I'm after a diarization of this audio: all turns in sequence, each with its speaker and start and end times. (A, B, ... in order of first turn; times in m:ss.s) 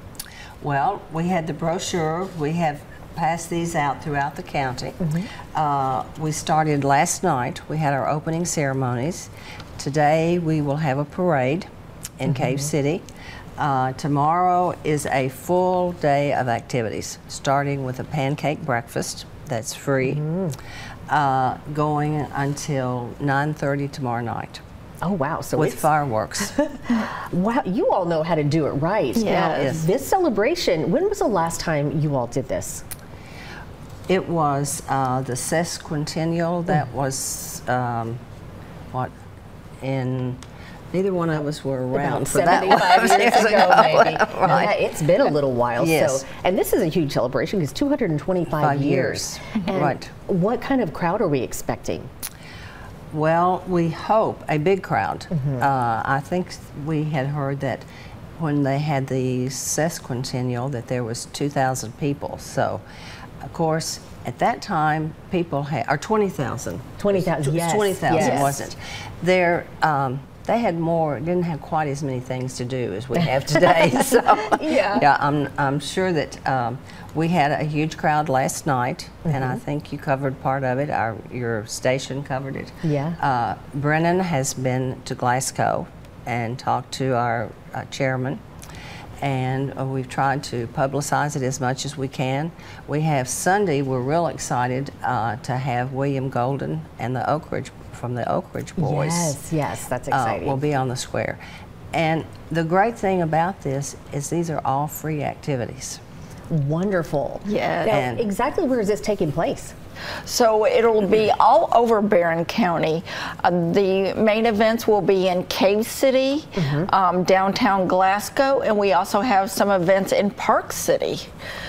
0:00.6-0:05.0 A
0:05.0-0:05.3 B
0:05.6-0:11.7 A
0:12.2-0:13.0 A
0:13.6-0:20.2 A
0:20.1-0:20.6 B
0:21.1-0:24.6 A
0:25.0-0:32.8 B
0:25.6-0:26.6 A
0:29.2-0:29.8 C
0:29.6-0:29.9 A
0:34.1-0:38.2 A
0:39.8-0:40.4 A
0:40.9-0:44.7 A
0:41.9-0:52.1 B
0:45.8-0:46.2 A
0:48.6-0:50.1 A
0:53.1-0:57.9 A
0:58.4-1:02.8 A
1:03.4-1:28.4 A
1:07.0-1:08.7 B
1:08.2-1:08.5 C
1:13.5-1:15.1 B
1:19.3-1:19.6 B
1:22.8-1:23.2 B
1:29.2-1:39.4 A
1:38.8-1:40.6 B
1:40.1-1:41.4 A
1:41.9-1:46.0 A
1:46.5-1:49.7 B
1:47.5-1:48.0 C
1:47.9-1:48.2 A
1:50.2-2:01.3 C
1:56.6-1:56.9 B